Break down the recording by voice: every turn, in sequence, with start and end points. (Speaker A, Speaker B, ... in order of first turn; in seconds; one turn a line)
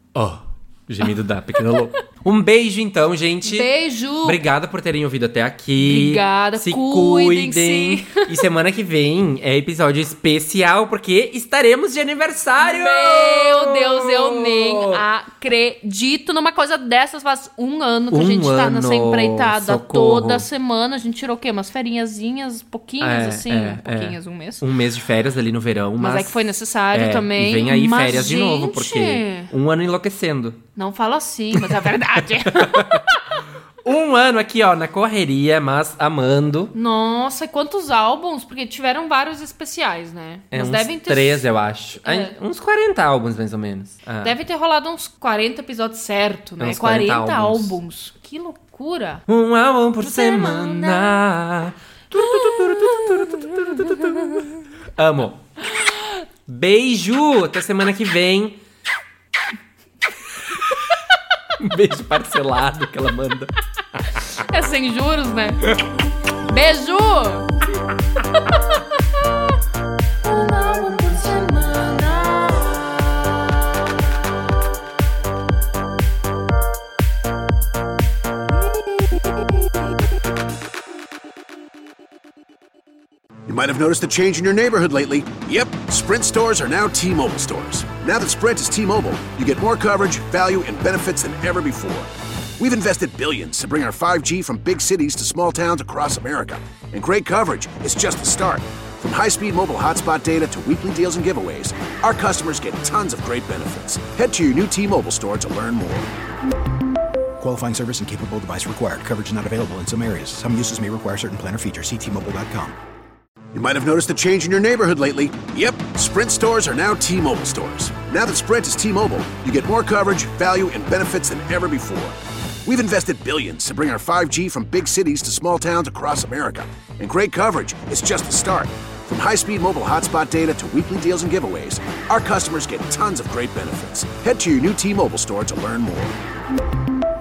Speaker A: 0.1-3.7
Speaker B: 3.4-4.4
Speaker A: 4.2-15.0
Speaker B: 5.8-8.4
Speaker B: 12.6-24.6
Speaker A: 18.1-20.4
Speaker A: 23.0-26.4
Speaker B: 26.0-29.5
Speaker A: 26.9-30.6
Speaker B: 30.8-33.2
Speaker A: 32.5-33.1
Speaker A: 33.8-36.7
Speaker B: 36.7-41.5
Speaker A: 40.5-44.3
Speaker B: 42.0-42.3
Speaker B: 44.2-49.2
Speaker A: 46.6-47.8
Speaker A: 49.3-55.5
Speaker B: 50.0-51.2
Speaker B: 52.1-54.4
Speaker A: 56.5-58.6
Speaker A: 61.6-63.5
Speaker B: 64.3-65.7
Speaker B: 66.4-67.5
Speaker B: 68.3-69.5
Speaker B: 70.2-73.7
Speaker B: 78.7-80.0
Speaker C: 83.5-106.1
Speaker D: 107.4-112.8
Speaker C: 113.5-136.1